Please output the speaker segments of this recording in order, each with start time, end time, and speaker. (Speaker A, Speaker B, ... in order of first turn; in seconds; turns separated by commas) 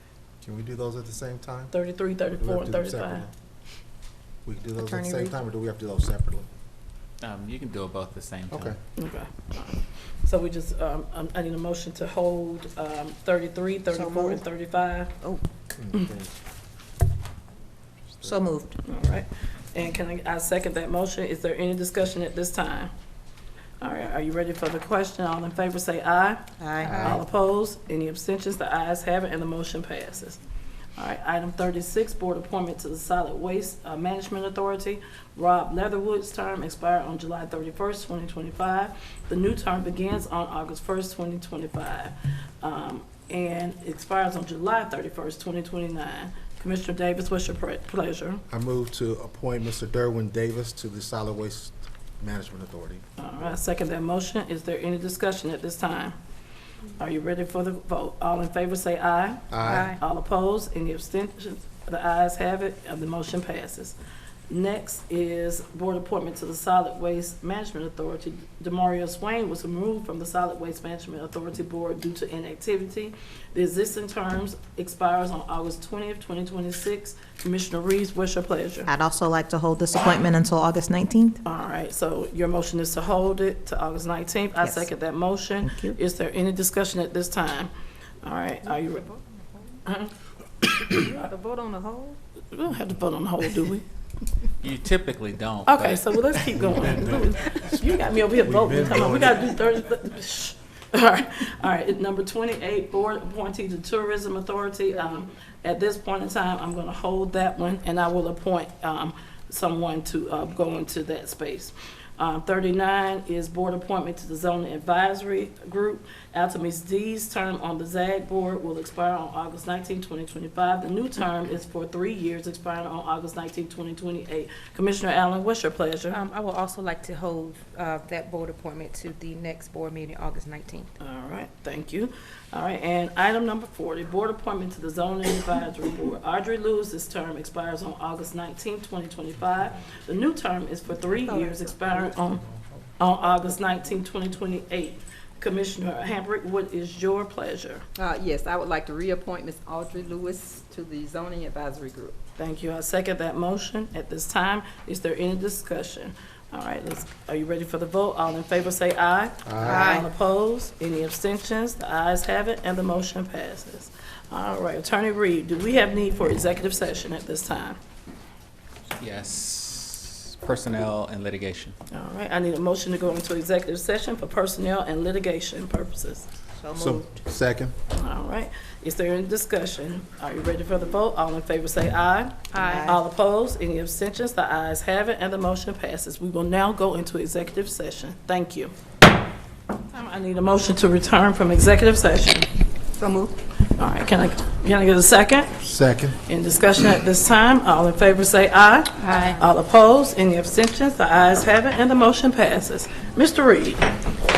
Speaker A: 0.4-1.7, Speaker B: 1.7-3.2, Speaker A: 2.4-3.3, Speaker A: 4.4-6.5, Speaker C: 4.8-5.5, Speaker D: 7.2-8.7, Speaker A: 8.5-8.8, Speaker B: 9.0-15.1, Speaker C: 13.9-14.4, Speaker A: 15.7-16.3, Speaker C: 18.2-18.8, Speaker B: 18.8-22.9, Speaker B: 23.8-30.4, Speaker C: 26.6-27.2, Speaker B: 31.0-48.4, Speaker A: 48.5-53.0, Speaker B: 53.2-56.1, Speaker B: 57.0-64.0, Speaker A: 59.5-59.9, Speaker E: 59.6-60.0, Speaker B: 64.5-78.9, Speaker C: 78.9-81.4, Speaker B: 81.4-87.7, Speaker C: 84.6-84.8, Speaker C: 85.6-86.0, Speaker B: 88.2-89.0, Speaker B: 89.8-90.1, Speaker E: 90.9-92.2, Speaker B: 92.5-93.8, Speaker D: 94.6-96.4, Speaker B: 95.7-126.2, Speaker A: 96.6-97.2, Speaker A: 98.4-99.4, Speaker E: 126.1-130.9, Speaker B: 131.0-142.4, Speaker F: 141.3-142.0, Speaker B: 143.0-147.8, Speaker F: 148.0-152.2, Speaker B: 152.4-167.8, Speaker A: 159.4-159.9, Speaker C: 159.6-160.0, Speaker D: 169.0-171.8, Speaker B: 171.9-176.3, Speaker C: 176.6-177.2, Speaker A: 176.8-177.7, Speaker B: 177.9-188.7, Speaker C: 182.5-183.0, Speaker E: 182.5-182.9, Speaker B: 189.9-192.4, Speaker F: 192.9-193.3, Speaker B: 193.7-195.5, Speaker A: 195.6-196.2, Speaker B: 196.3-203.8, Speaker F: 199.0-199.3